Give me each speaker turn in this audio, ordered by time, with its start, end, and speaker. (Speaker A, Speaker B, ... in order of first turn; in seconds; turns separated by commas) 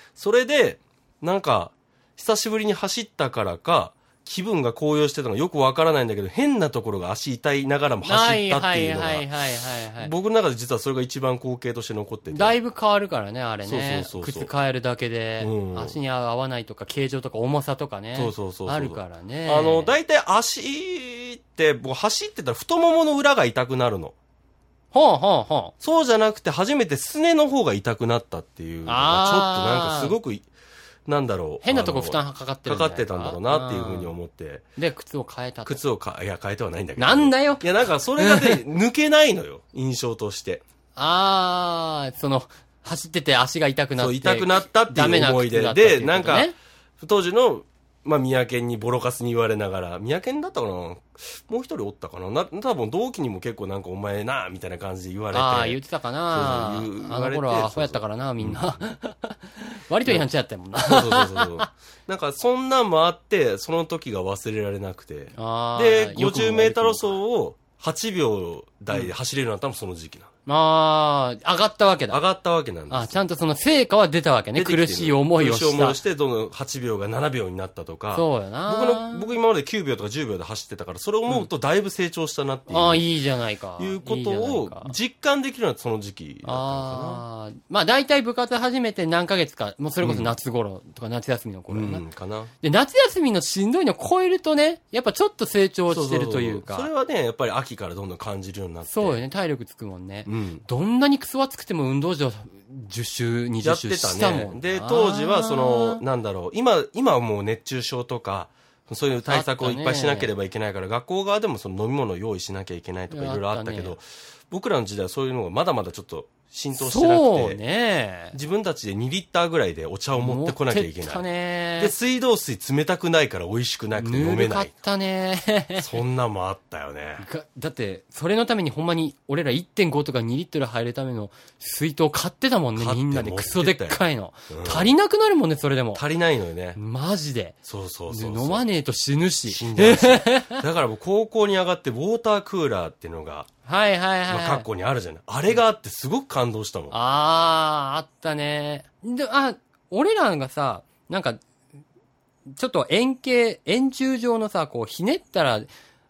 Speaker A: 0.1-9.3, Speaker B: 8.0-10.1, Speaker A: 10.0-12.6, Speaker B: 12.3-19.9, Speaker A: 13.6-14.5, Speaker A: 15.4-15.9, Speaker A: 18.1-24.1, Speaker B: 24.9-25.7, Speaker A: 25.8-30.5, Speaker B: 28.9-30.1, Speaker A: 31.1-34.6, Speaker B: 31.6-34.1, Speaker B: 34.8-35.8, Speaker A: 35.6-40.6, Speaker B: 37.0-37.6, Speaker B: 38.2-38.6, Speaker B: 41.0-46.5, Speaker A: 44.0-58.8, Speaker B: 55.3-61.7, Speaker A: 60.8-70.3, Speaker B: 65.3-67.2, Speaker B: 70.5-72.2, Speaker A: 72.1-73.2, Speaker B: 72.9-76.0, Speaker A: 74.5-83.0, Speaker B: 78.1-79.2, Speaker B: 82.7-84.9, Speaker A: 83.8-87.2, Speaker B: 86.4-92.0, Speaker A: 90.0-90.3, Speaker A: 91.7-92.5, Speaker B: 92.6-96.9, Speaker A: 95.9-99.2, Speaker B: 98.9-106.0, Speaker A: 100.2-100.6, Speaker A: 103.6-117.6, Speaker B: 109.3-110.3, Speaker B: 113.1-114.0, Speaker B: 116.7-118.3, Speaker A: 118.3-121.2, Speaker B: 120.2-121.9, Speaker A: 121.8-124.7, Speaker B: 124.0-125.9, Speaker A: 125.8-127.3, Speaker B: 127.2-136.0, Speaker A: 132.8-134.9, Speaker A: 135.9-136.8, Speaker B: 136.8-137.6, Speaker A: 137.6-138.6, Speaker B: 138.1-140.6, Speaker A: 139.5-143.5, Speaker B: 143.6-144.7, Speaker A: 144.3-146.9, Speaker B: 146.9-151.4, Speaker B: 152.5-155.7